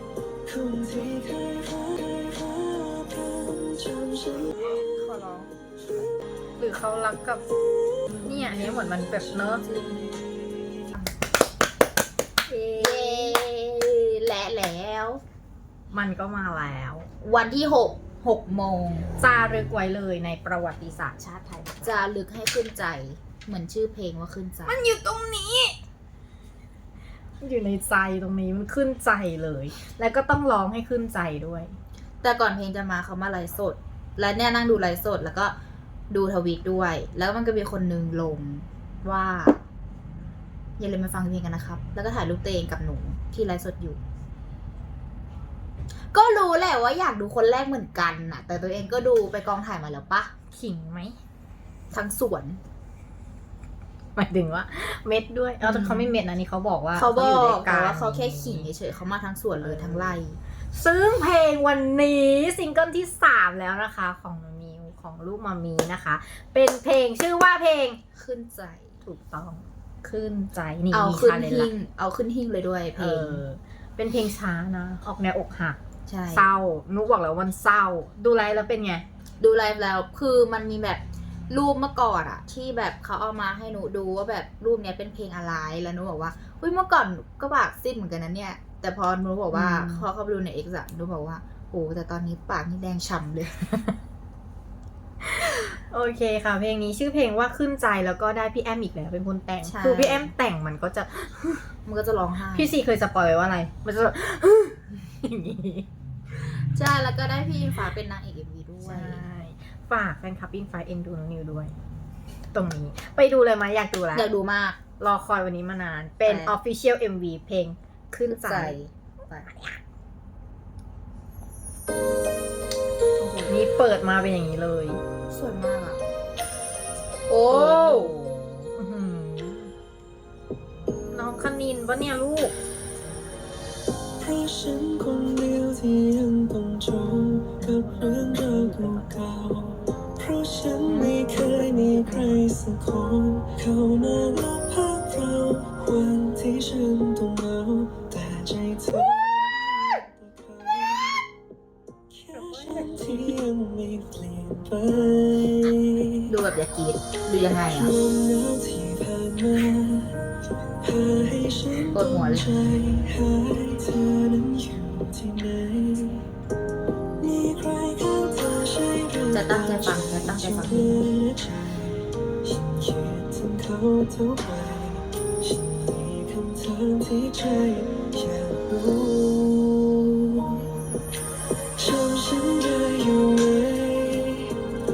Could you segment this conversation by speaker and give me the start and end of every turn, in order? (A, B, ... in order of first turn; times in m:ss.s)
0:00.4-0:04.7 A
0:05.0-0:05.5 B
0:06.6-0:07.4 C
0:08.1-0:09.4 A
0:08.2-0:09.6 C
0:09.6-0:10.2 B
0:12.5-0:13.4 C
0:12.8-0:15.2 B
0:15.9-0:17.1 C
0:17.2-0:19.1 B
0:19.2-0:21.9 C
0:21.8-0:24.8 B
0:24.7-0:25.8 C
0:27.4-0:31.7 C
0:32.2-0:35.5 B
0:36.1-0:39.6 B
0:40.8-0:44.0 B
0:46.1-0:50.3 B
0:50.5-0:51.2 C
0:51.9-0:52.6 B
0:54.2-0:58.7 C
0:55.6-0:56.1 B
0:56.9-1:00.4 B
0:59.6-1:00.2 C
1:00.7-1:08.0 C
1:08.1-1:09.0 B
1:09.0-1:11.7 C
1:10.9-1:13.4 B
1:13.0-1:15.8 C
1:16.1-1:16.5 B
1:16.3-1:19.0 C
1:19.4-1:33.8 B
1:29.5-1:30.1 C
1:35.2-1:41.7 C
1:39.6-1:40.3 B
1:41.8-1:42.7 B
1:42.5-1:45.9 C
1:46.4-1:49.2 B
1:48.8-1:51.7 C
1:52.5-1:54.3 C
1:54.1-1:54.8 B
1:55.0-1:58.8 C
1:56.2-1:56.5 B
1:58.3-1:59.5 B
1:59.4-1:59.8 C
2:03.2-2:03.5 B
2:03.5-2:05.0 C
2:05.3-2:06.0 B
2:07.3-2:08.2 B
2:07.5-2:09.7 C
2:11.1-2:12.5 C
2:14.2-2:31.2 A
2:17.6-2:19.1 C
2:20.9-2:22.4 B
2:32.1-2:36.3 A
2:32.3-2:33.3 C
2:36.2-2:37.9 B
2:37.7-2:40.2 A
2:40.8-2:46.3 A
2:41.9-2:42.5 B
2:47.2-3:00.6 A
2:49.3-2:51.1 B
3:01.8-3:04.6 A